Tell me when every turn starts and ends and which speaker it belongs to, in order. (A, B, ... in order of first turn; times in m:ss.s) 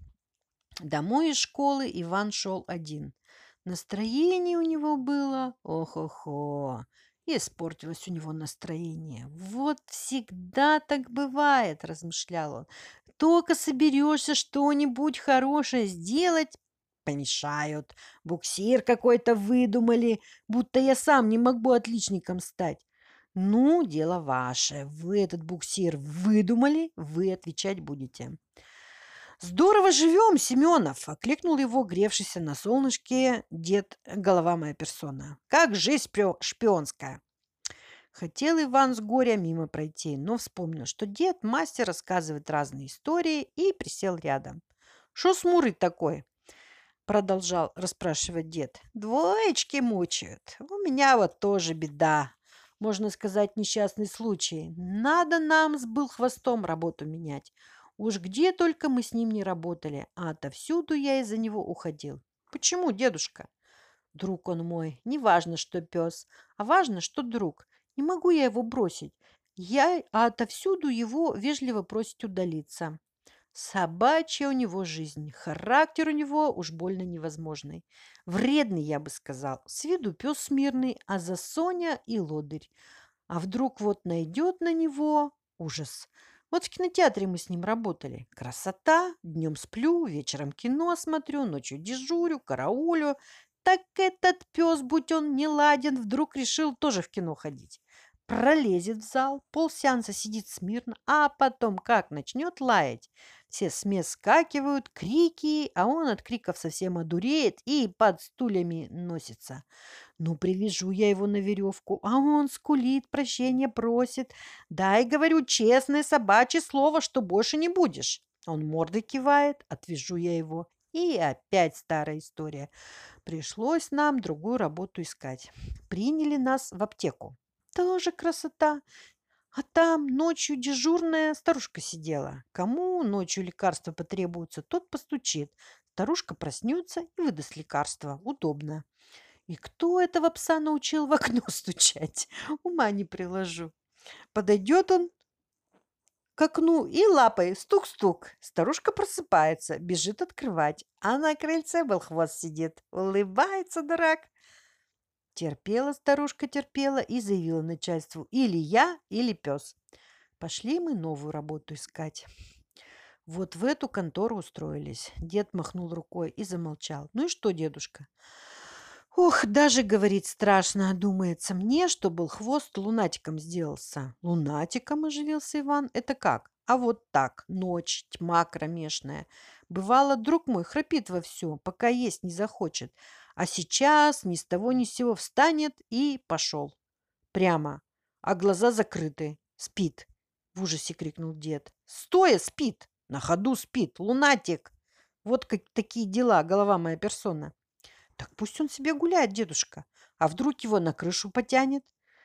0:00.8-0:22.8 A
0:23.3-0:28.4 A
0:29.4-0:37.2 A
0:38.1-0:44.6 A
0:45.1-0:46.2 A
0:47.0-1:03.5 A
1:04.1-1:13.0 A
1:13.5-1:22.7 A
1:23.3-1:49.6 A
1:50.2-2:02.7 A
2:03.2-2:08.8 A
2:09.5-2:18.8 A
2:19.5-2:23.7 A
2:24.3-2:25.1 A
2:26.4-2:34.3 A
2:35.3-2:39.8 A
2:40.4-2:42.3 A
2:43.2-2:48.1 A
2:49.1-3:06.8 A
3:07.3-3:14.7 A
3:15.2-3:17.5 A
3:18.2-3:21.9 A